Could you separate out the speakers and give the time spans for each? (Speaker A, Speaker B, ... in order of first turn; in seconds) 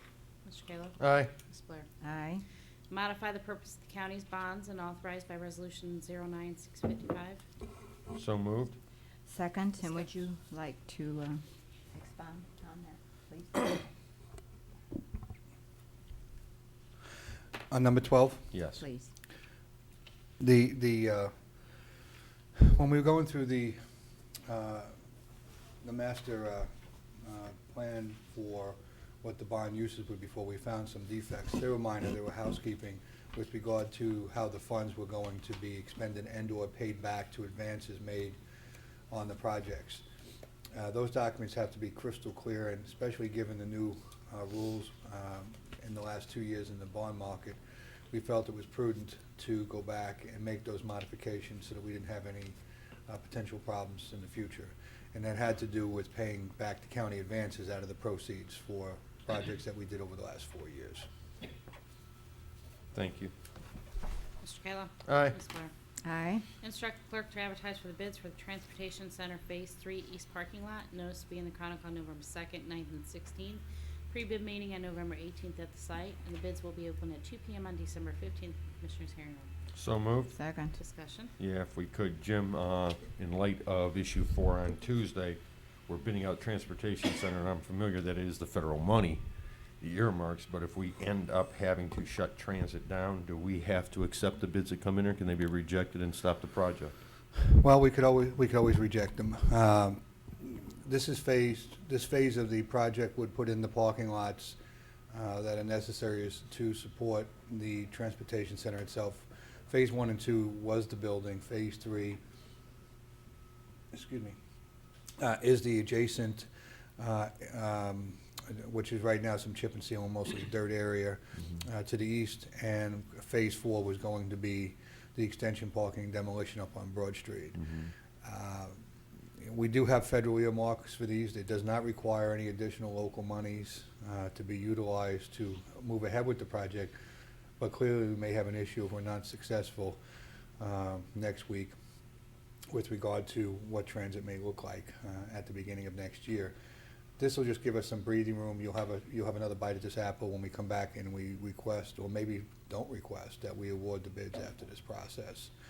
Speaker A: 0.4-1.9, 2.9-7.4, 9.8-10.1, 64.4-65.7, 66.6-79.5, 80.7-81.3
Speaker B: 1.0-1.3, 8.1-8.8, 18.5-18.8, 62.9-63.3, 65.1-65.3, 79.7-80.3, 81.4-89.2, 89.8-96.9, 127.6-127.9
Speaker C: 2.0-2.4, 9.3-11.4, 11.9-13.8, 18.8-19.1, 66.0-66.5, 80.3-80.7
Speaker D: 17.7-18.5, 20.4-21.3, 22.6-23.8, 24.4-24.9, 25.8-26.7, 27.2-38.4, 39.1-40.0, 40.7-47.6, 48.1-52.5, 53.1-61.1, 97.3-104.6, 105.1-112.2, 113.9-114.3, 115.2-127.6, 128.2-128.8, 129.4-136.9, 137.6-140.0, 140.6-141.8, 142.7-146.5, 147.2-155.5